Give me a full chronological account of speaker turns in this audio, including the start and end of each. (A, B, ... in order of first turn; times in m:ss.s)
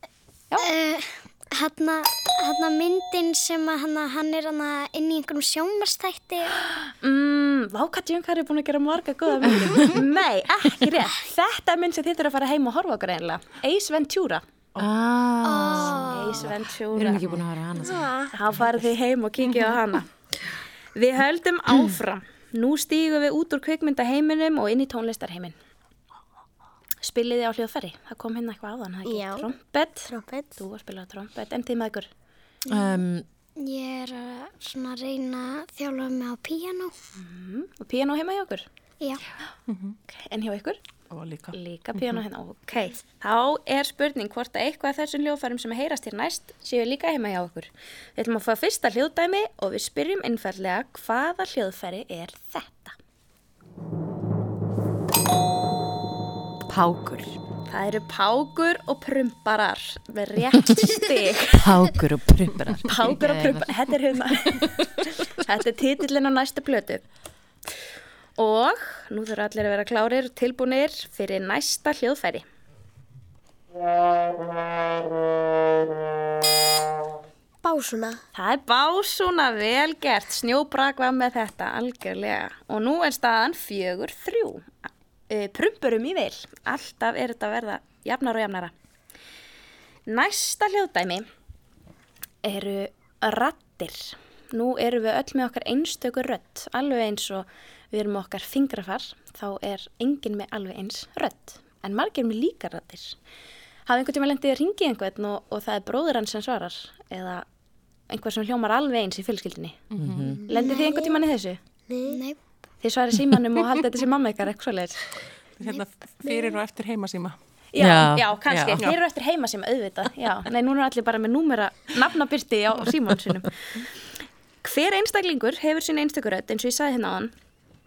0:00.6-0:06.6 A
0:06.9-0:14.4 B
0:14.8-0:18.7 C
0:15.4-0:16.4 A
0:15.9-0:17.4 B
0:17.8-0:18.3 D
0:18.4-0:20.1 B
0:21.0-0:25.6 B
0:27.0-0:32.1 B
0:29.0-0:29.5 D
0:30.1-0:30.6 D
0:32.7-0:33.0 A
0:32.7-0:33.3 C
0:33.6-0:37.0 A
0:37.2-0:38.7 B
0:39.7-0:40.0 E
0:40.1-0:40.8 B
0:41.1-0:42.2 E
0:41.5-0:53.0 B
0:56.7-0:57.4 C
0:57.7-1:01.7 B
1:01.6-1:03.7 C
1:02.9-1:07.0 B
1:08.4-1:12.4 B
1:17.6-1:18.2 D
1:18.4-1:24.7 B
1:25.3-1:28.7 B
1:30.1-1:31.2 B
1:32.4-1:43.2 B
1:43.9-1:47.4 B
1:48.1-1:49.8 B
1:49.9-1:50.2 E
1:50.0-1:50.4 C
1:50.3-1:51.2 D
1:50.5-1:51.6 B
1:50.5-1:51.0 A
1:51.9-1:52.2 D
1:52.0-1:52.4 A
1:52.8-1:55.1 B
1:55.6-1:57.4 E
1:56.3-1:56.6 D
1:57.7-2:04.0 B
1:57.8-1:58.8 C
2:04.6-2:07.3 B